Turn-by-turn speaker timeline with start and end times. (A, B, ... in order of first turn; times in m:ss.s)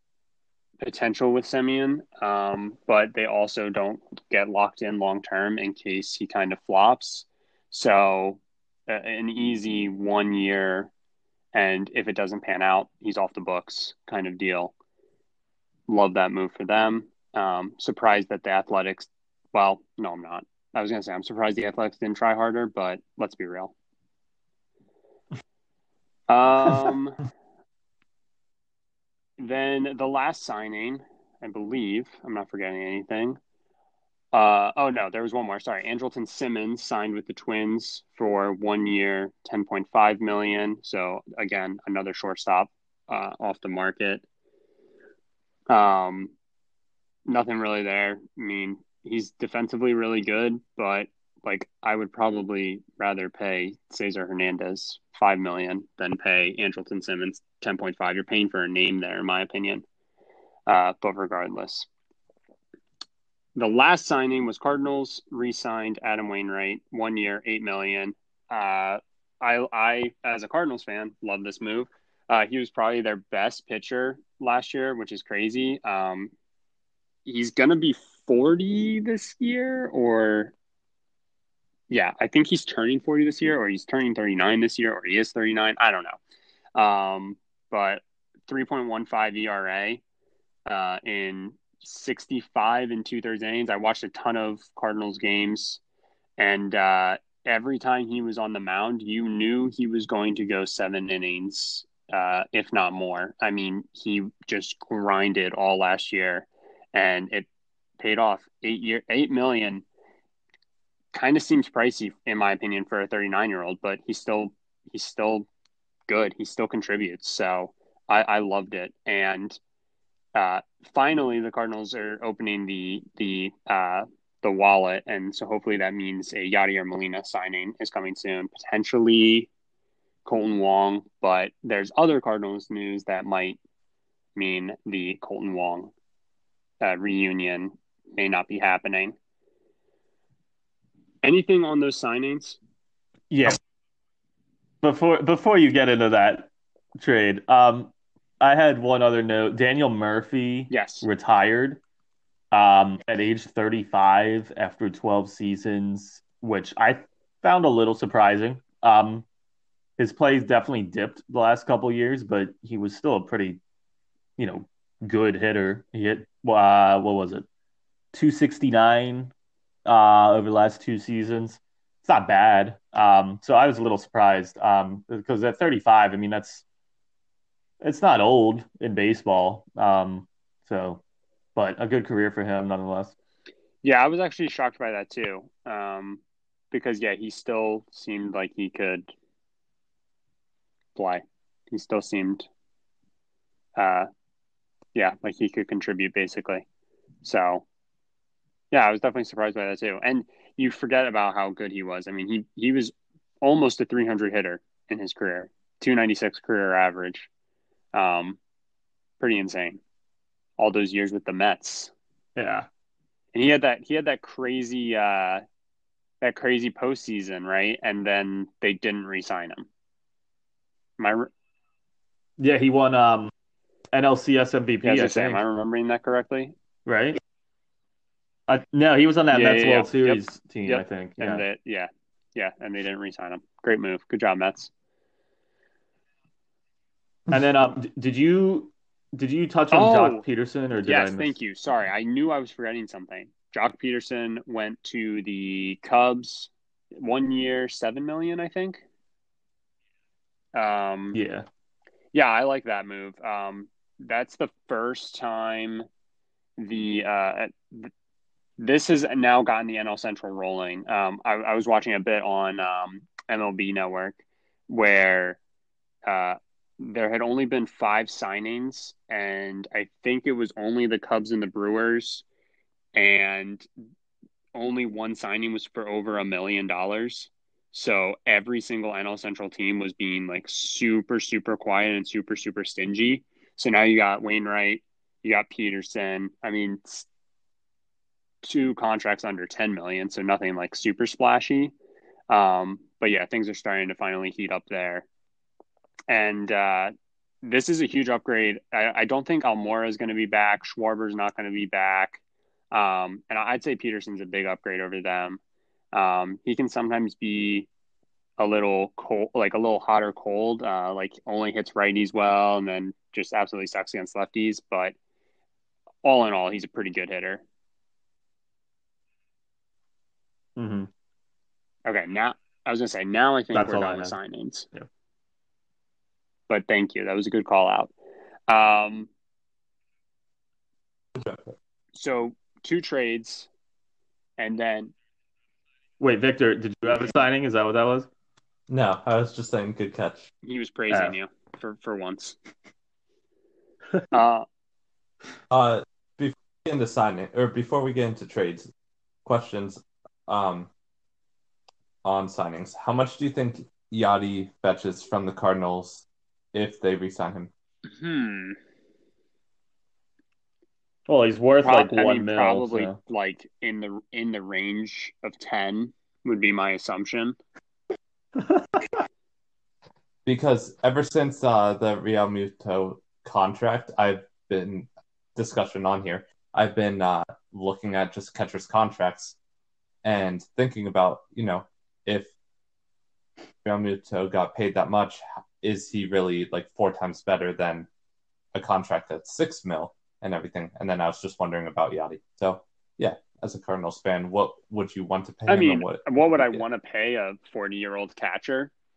0:00.8-0:10.9 A
0:11.5-0:14.7 A
0:15.9-0:23.7 A
0:26.3-0:27.2 A
0:29.4-0:33.4 A
0:34.3-0:44.2 A
0:45.7-0:46.3 A
0:47.2-0:59.8 A
1:00.7-1:01.9 A
1:03.5-1:16.3 A
1:17.2-1:20.5 A
1:21.9-1:26.2 A
1:26.7-1:30.0 A
1:30.7-1:35.8 A
1:36.4-1:47.4 A
1:48.0-1:49.8 A
1:51.1-1:55.5 A
1:56.1-1:59.6 A
2:00.3-2:09.5 A
2:10.2-2:13.6 A
2:14.4-2:15.9 A
2:16.8-2:19.1 A
2:21.2-2:22.6 A
2:23.3-2:23.6 B
2:24.8-2:31.8 B
2:30.7-2:31.0 A
2:32.5-2:39.2 B
2:40.0-2:43.6 B
2:44.4-2:47.4 B
2:48.1-2:49.3 B
2:49.8-2:56.6 B
2:57.8-3:01.0 B
3:01.6-3:03.1 B
3:03.8-3:06.2 A
3:06.7-3:09.1 A
3:11.0-3:12.5 A
3:13.8-3:14.1 A
3:14.9-3:16.6 A
3:17.2-3:17.6 A
3:18.7-3:27.3 A
3:27.9-3:28.4 A
3:29.2-3:29.8 A
3:30.6-3:31.9 A
3:32.4-3:32.7 B
3:33.3-3:35.4 A
3:36.2-3:39.6 A
3:41.0-3:41.3 A
3:42.4-3:43.3 B
3:43.9-3:45.4 B
3:44.8-3:46.5 A
3:46.8-3:47.2 B
3:48.5-3:51.4 B
3:49.3-3:54.7 A
3:57.3-4:01.3 B
3:59.7-4:00.2 A
4:00.8-4:08.8 A
4:10.5-4:11.2 A
4:11.1-4:11.4 B
4:12.1-4:15.9 A
4:16.6-4:17.9 A
4:18.6-4:25.4 A
4:26.0-4:32.2 A
4:32.9-4:33.7 A
4:34.5-4:47.0 A
4:48.4-4:51.7 A
4:52.3-4:55.0 A
4:56.1-5:02.2 A
5:02.7-5:05.4 A
5:05.9-5:07.7 A
5:08.4-5:14.9 A
5:16.0-5:17.4 A
5:20.6-5:20.9 B
5:21.8-5:24.7 A
5:23.5-5:24.2 B
5:26.5-5:27.9 A
5:28.5-5:29.1 A
5:31.2-5:31.5 C
5:31.9-5:33.5 A
5:34.4-5:34.9 A
5:36.0-5:38.1 B
5:38.7-5:40.3 C
5:40.4-5:42.4 A
5:40.9-5:41.1 B
5:44.1-5:44.4 A
5:45.5-5:48.7 C
5:49.2-5:50.7 C
5:52.0-5:57.5 C
5:57.9-5:58.6 A
6:01.1-6:03.0 B
6:01.6-6:07.4 A
6:10.2-6:19.4 C
6:20.0-6:22.3 C
6:23.6-6:27.9 C
6:28.5-6:36.6 C
6:35.5-6:38.7 A